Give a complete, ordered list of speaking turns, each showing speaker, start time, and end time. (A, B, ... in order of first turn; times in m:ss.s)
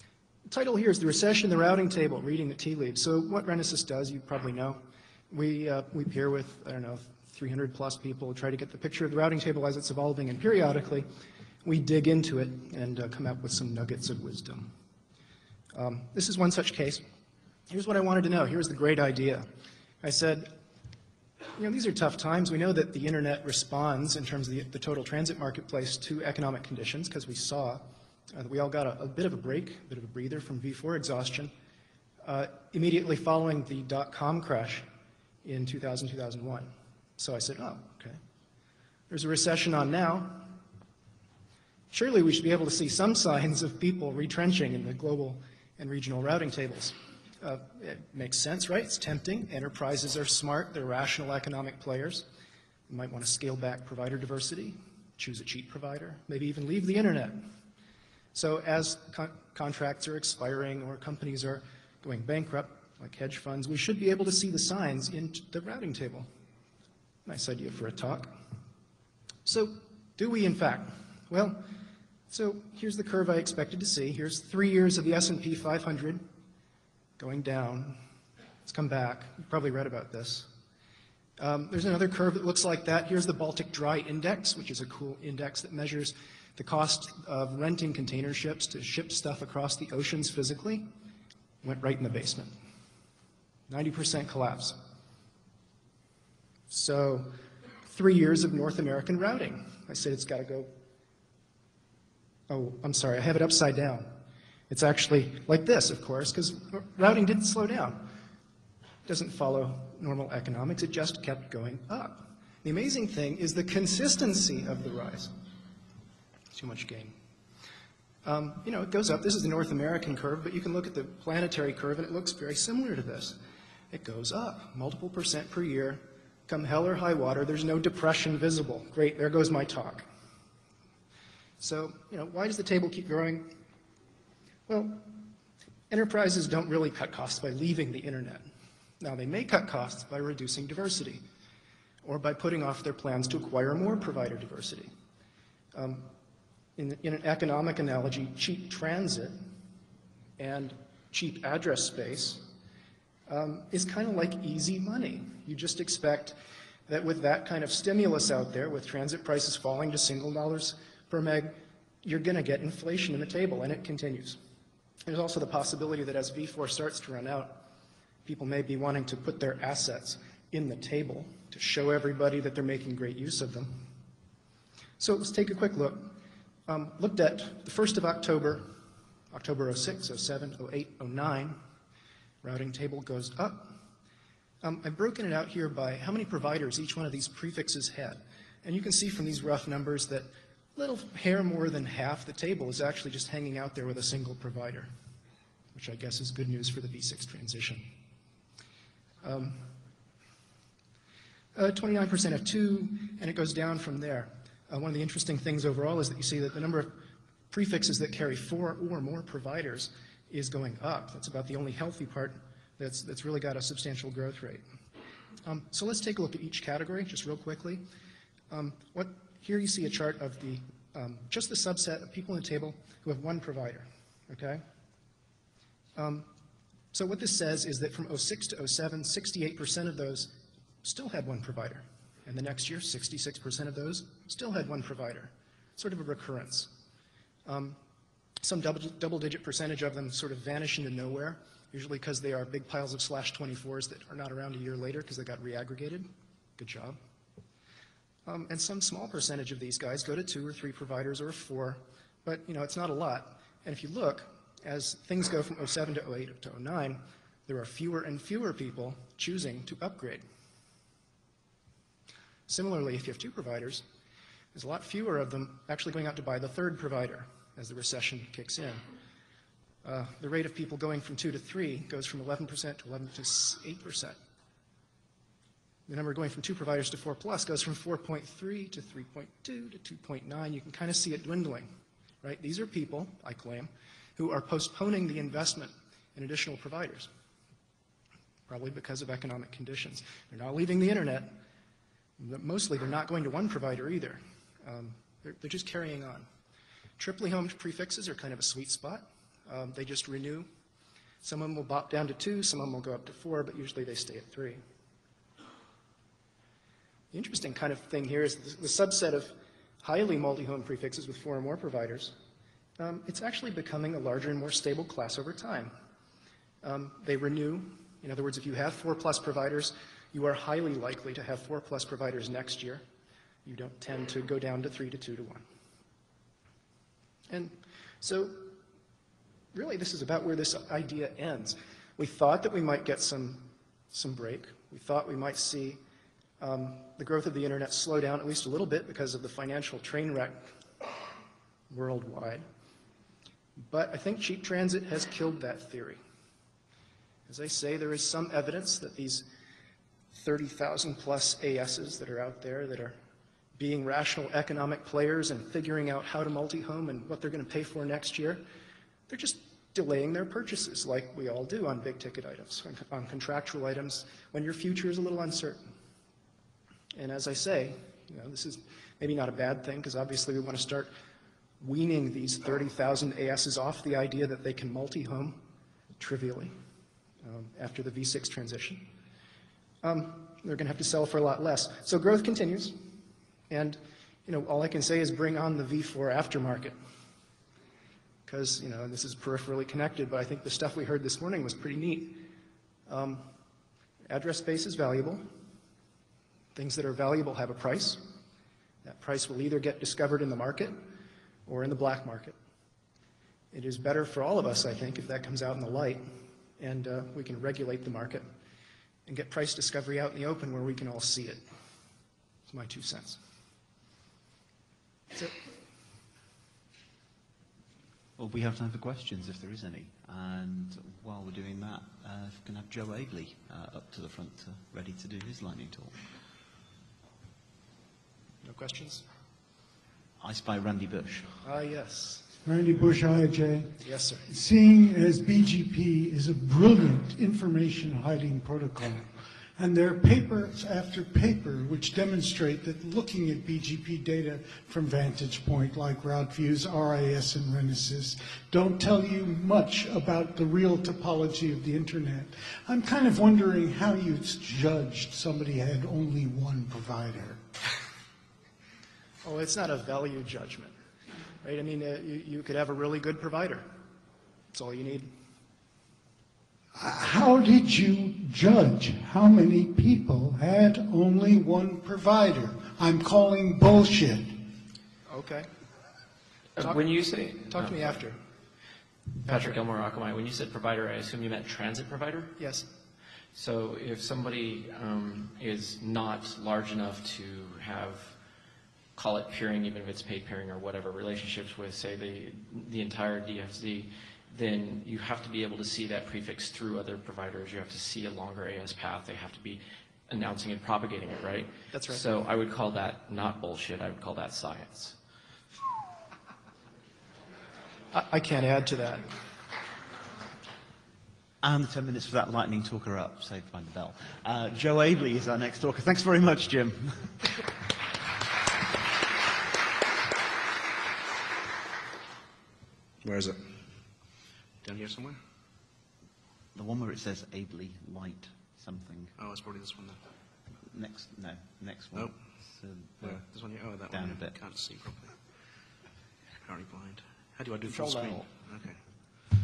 0:00.5-0:11.0 A
0:11.6-0:14.7 A
0:15.7-0:17.0 A
0:17.7-0:19.5 A
0:20.0-0:20.5 A
0:21.6-0:31.5 A
0:32.2-0:34.8 A
0:35.4-0:38.2 A
0:39.1-0:40.6 A
0:41.9-0:52.2 A
0:52.9-0:57.4 A
0:58.3-1:06.3 A
1:07.2-1:08.3 A
1:09.4-1:11.6 A
1:12.3-1:16.2 A
1:17.2-1:18.0 A
1:18.6-1:20.5 A
1:21.4-1:30.9 A
1:31.6-1:32.5 A
1:33.7-1:34.8 A
1:36.7-1:37.3 A
1:37.9-1:40.7 A
1:42.5-1:44.1 A
1:44.7-1:48.1 A
1:49.0-1:55.3 A
1:56.5-1:57.1 A
1:58.2-2:03.4 A
2:03.9-2:10.0 A
2:11.6-2:13.5 A
2:14.7-2:15.2 A
2:15.9-2:18.5 A
2:19.0-2:21.2 A
2:22.0-2:24.9 A
2:25.7-2:26.1 A
2:26.8-2:29.4 A
2:30.4-2:32.4 A
2:33.3-2:36.4 A
2:36.9-2:44.4 A
2:45.0-2:47.6 A
2:48.2-2:53.8 A
2:55.0-2:56.1 A
2:56.7-2:58.7 A
2:59.3-3:01.6 A
3:02.4-3:03.7 A
3:04.6-3:14.9 A
3:15.7-3:17.9 A
3:19.2-3:19.6 A
3:21.5-3:27.0 A
3:27.5-3:34.6 A
3:35.4-3:37.8 A
3:38.5-3:44.6 A
3:46.0-3:46.3 A
3:46.9-3:56.7 A
3:57.4-3:57.8 A
3:58.4-4:07.0 A
4:08.2-4:20.2 A
4:22.5-4:23.8 A
4:24.5-4:28.8 A
4:29.8-4:34.2 A
4:35.9-4:41.7 A
4:42.2-4:47.1 A
4:48.5-4:51.3 A
4:52.2-4:56.3 A
4:57.0-5:00.5 A
5:01.2-5:04.6 A
5:07.1-5:12.1 A
5:12.8-5:15.7 A
5:16.6-5:22.8 A
5:23.4-5:25.4 A
5:27.3-5:28.5 A
5:29.5-5:35.8 A
5:36.4-5:40.5 A
5:41.7-5:42.4 A
5:43.6-5:46.0 A
5:47.3-5:49.3 A
5:50.1-5:53.0 A
5:53.6-5:58.4 A
5:59.1-6:05.7 A
6:06.9-6:10.9 A
6:11.6-6:15.4 A
6:16.0-6:16.5 A
6:17.2-6:18.9 A
6:19.8-6:22.8 A
6:23.5-6:26.7 A
6:28.2-6:32.2 A
6:32.9-6:33.3 A
6:34.1-6:35.2 A
6:36.5-6:38.0 A
6:38.8-6:40.8 A
6:41.4-6:42.4 A
6:43.5-6:46.1 A
6:46.6-6:48.2 A
6:49.0-6:51.4 A
6:52.5-6:53.2 A
6:58.2-7:05.9 B
7:08.4-7:09.0 A
7:10.2-7:11.3 B
7:11.4-7:12.3 A
7:12.4-7:37.4 C
7:13.8-7:14.2 A
7:39.2-7:40.7 A
7:41.4-7:43.6 A
7:44.5-7:45.1 A
7:46.8-7:54.5 C
7:55.1-7:55.5 A
7:56.6-7:58.0 D
7:57.5-7:58.2 A
7:59.2-8:02.4 D
7:59.3-7:59.6 A
8:02.4-8:02.6 A
8:03.3-8:08.1 D
8:09.0-8:24.9 D
8:21.7-8:22.0 A
8:27.9-8:29.1 A
8:31.4-8:37.1 B
8:43.0-8:43.4 E
8:44.6-8:45.2 E
8:46.5-8:49.1 B
8:49.2-8:50.0 E
8:50.7-8:53.2 B
8:53.0-8:55.2 E
8:53.9-8:54.3 B
8:56.4-8:58.8 E
8:57.7-8:58.2 B